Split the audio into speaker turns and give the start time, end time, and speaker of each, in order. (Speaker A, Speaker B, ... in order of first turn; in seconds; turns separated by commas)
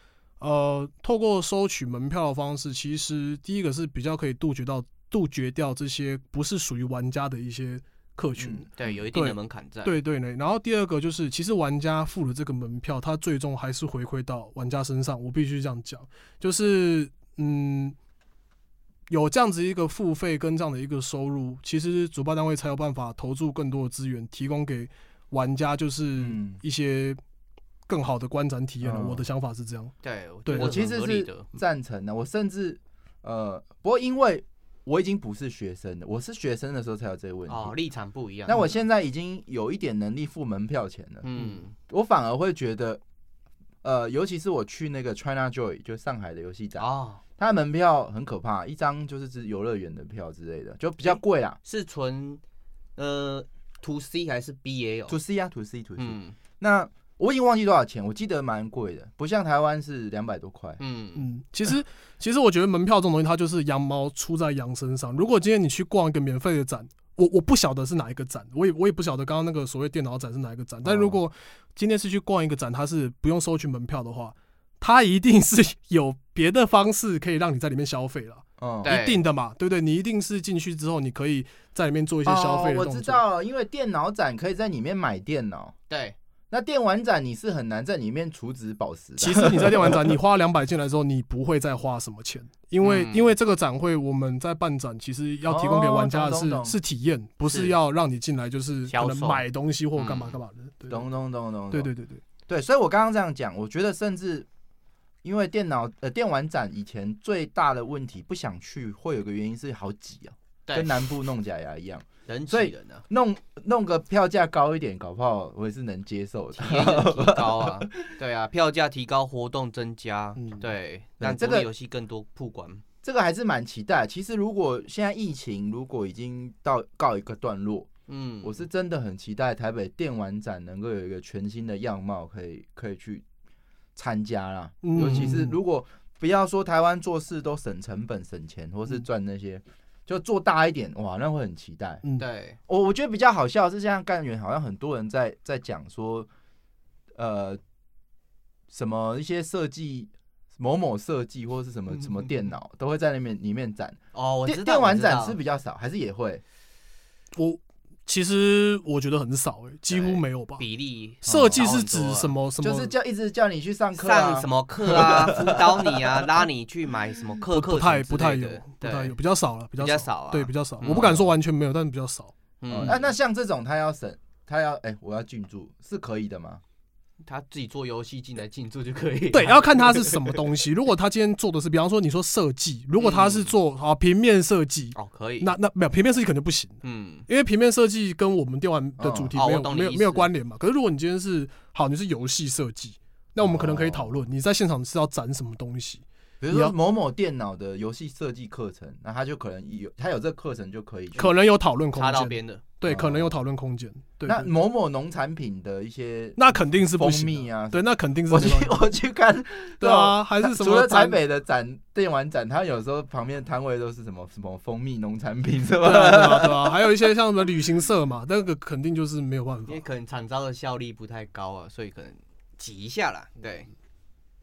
Speaker A: 0.4-18.0, Speaker B: 8.4-9.0, Speaker C: 8.8-10.0, Speaker A: 19.1-27.2, Speaker B: 26.2-26.6, Speaker A: 27.9-29.9, Speaker B: 28.8-29.2, Speaker C: 30.0-31.5, Speaker A: 30.4-30.7, Speaker B: 30.6-37.8, Speaker C: 37.5-38.7, Speaker B: 38.5-41.3, Speaker C: 41.2-41.7, Speaker B: 41.8-43.0, Speaker B: 43.8-46.9, Speaker C: 46.8-47.2, Speaker B: 47.4-51.6, Speaker C: 51.0-52.4, Speaker C: 53.0-55.2, Speaker B: 55.1-60.8, Speaker C: 56.0-56.4, Speaker C: 60.8-61.2, Speaker A: 61.1-83.2, Speaker B: 70.8-71.2, Speaker B: 78.6-78.9, Speaker C: 78.8-79.2, Speaker B: 82.3-85.8, Speaker C: 85.9-86.2, Speaker B: 86.5-90.1, Speaker A: 89.2-101.1, Speaker C: 92.8-93.3, Speaker B: 95.5-96.8, Speaker C: 97.5-97.7, Speaker C: 98.9-99.4, Speaker C: 100.0-100.4, Speaker B: 100.9-101.9, Speaker A: 101.7-102.2, Speaker B: 102.5-104.5, Speaker B: 105.2-117.9, Speaker C: 110.7-111.0, Speaker C: 112.3-113.0, Speaker C: 116.6-122.8, Speaker A: 120.4-120.6, Speaker B: 121.2-121.7, Speaker B: 123.0-127.9, Speaker C: 128.1-128.6, Speaker B: 128.4-133.2, Speaker B: 134.0-142.0, Speaker A: 134.8-135.6, Speaker C: 142.2-142.6, Speaker B: 142.7-146.3, Speaker B: 147.2-147.6, Speaker B: 148.7-156.4, Speaker C: 154.1-155.4, Speaker A: 157.4-160.6, Speaker C: 159.9-162.4, Speaker A: 161.2-162.9, Speaker B: 161.2-161.6, Speaker B: 162.6-166.2, Speaker C: 164.0-169.2, Speaker A: 167.5-173.0, Speaker C: 169.8-171.1, Speaker B: 170.9-171.2, Speaker C: 172.6-173.0, Speaker B: 172.7-176.6, Speaker C: 177.2-180.4, Speaker A: 179.3-196.8, Speaker C: 183.0-183.5, Speaker C: 184.9-185.5, Speaker C: 186.8-187.3, Speaker B: 189.0-189.3, Speaker C: 189.3-190.3, Speaker B: 193.4-194.2, Speaker B: 196.4-201.3, Speaker A: 201.2-204.5, Speaker C: 201.9-202.6, Speaker B: 202.8-203.3, Speaker B: 204.2-216.7, Speaker A: 206.4-208.8, Speaker A: 209.8-211.2, Speaker A: 215.8-219.8, Speaker C: 219.7-223.7